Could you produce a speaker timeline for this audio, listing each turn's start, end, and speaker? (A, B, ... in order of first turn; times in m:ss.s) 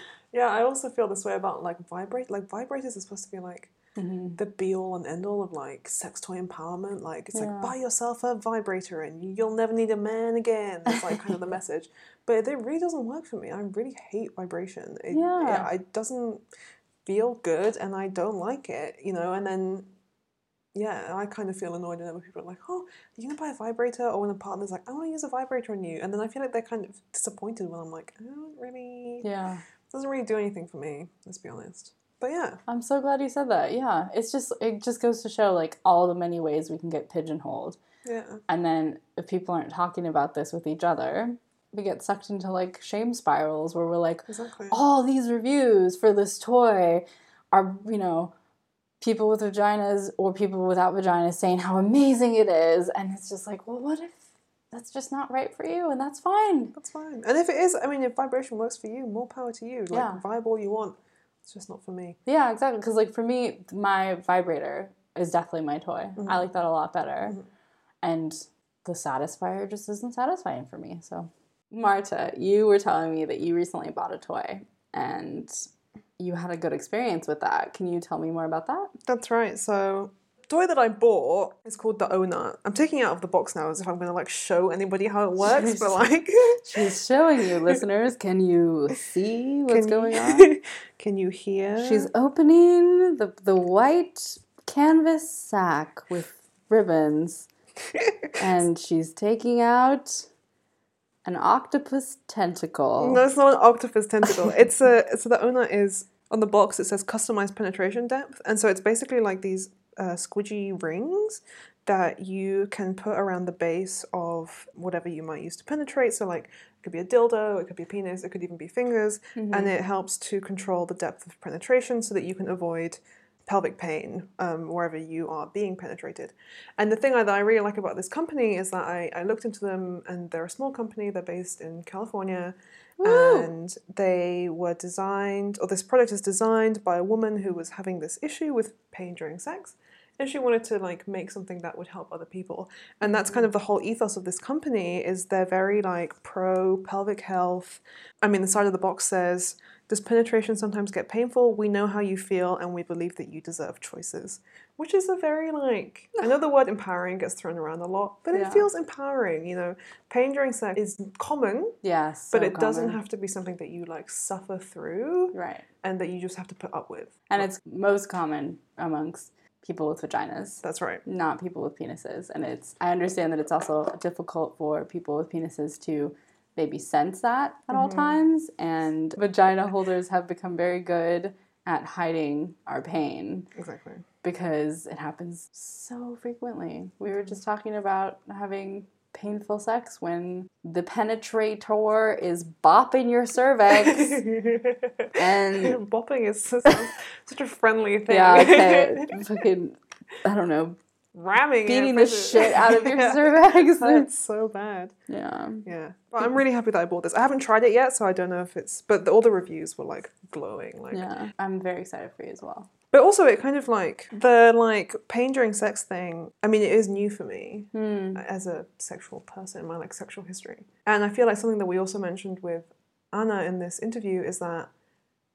0:00.3-0:03.7 A
0:04.0-0:04.4 B
0:04.4-0:16.4 A
0:07.3-0:07.7 B
0:15.1-0:15.7 B
0:17.0-0:19.9 A
0:20.7-0:29.3 A
0:29.2-0:29.6 B
0:29.9-0:32.6 A
0:32.7-0:37.8 B
0:38.0-0:38.4 A
0:38.5-0:48.3 B
0:44.3-0:44.8 A
0:49.0-0:56.7 B
0:56.8-1:02.2 A
0:59.9-1:00.2 B
1:02.2-1:07.4 B
1:06.2-1:06.4 A
1:08.0-1:18.9 B
1:19.1-1:26.8 A
1:25.4-1:26.0 B
1:26.6-1:30.5 B
1:29.7-1:32.1 A
1:31.8-1:37.5 B
1:38.4-1:40.3 B
1:41.2-1:43.2 B
1:43.0-2:41.8 A
1:59.4-1:59.7 B
2:13.0-2:13.5 B
2:23.0-2:23.4 B
2:38.3-2:38.7 B
2:41.8-2:43.0 B
2:42.3-2:47.5 A
2:45.3-2:45.6 B
2:47.3-3:03.5 B
2:50.6-2:51.0 A
2:57.7-2:58.2 A
3:03.6-3:04.0 A
3:04.2-3:14.2 B
3:13.8-3:19.1 A
3:15.1-3:15.8 B
3:18.1-3:20.8 B
3:21.1-3:25.0 A
3:21.6-3:24.1 B
3:25.1-3:25.6 B
3:25.6-3:31.1 A
3:30.9-3:32.7 B
3:32.9-3:44.7 A
3:37.7-3:38.2 B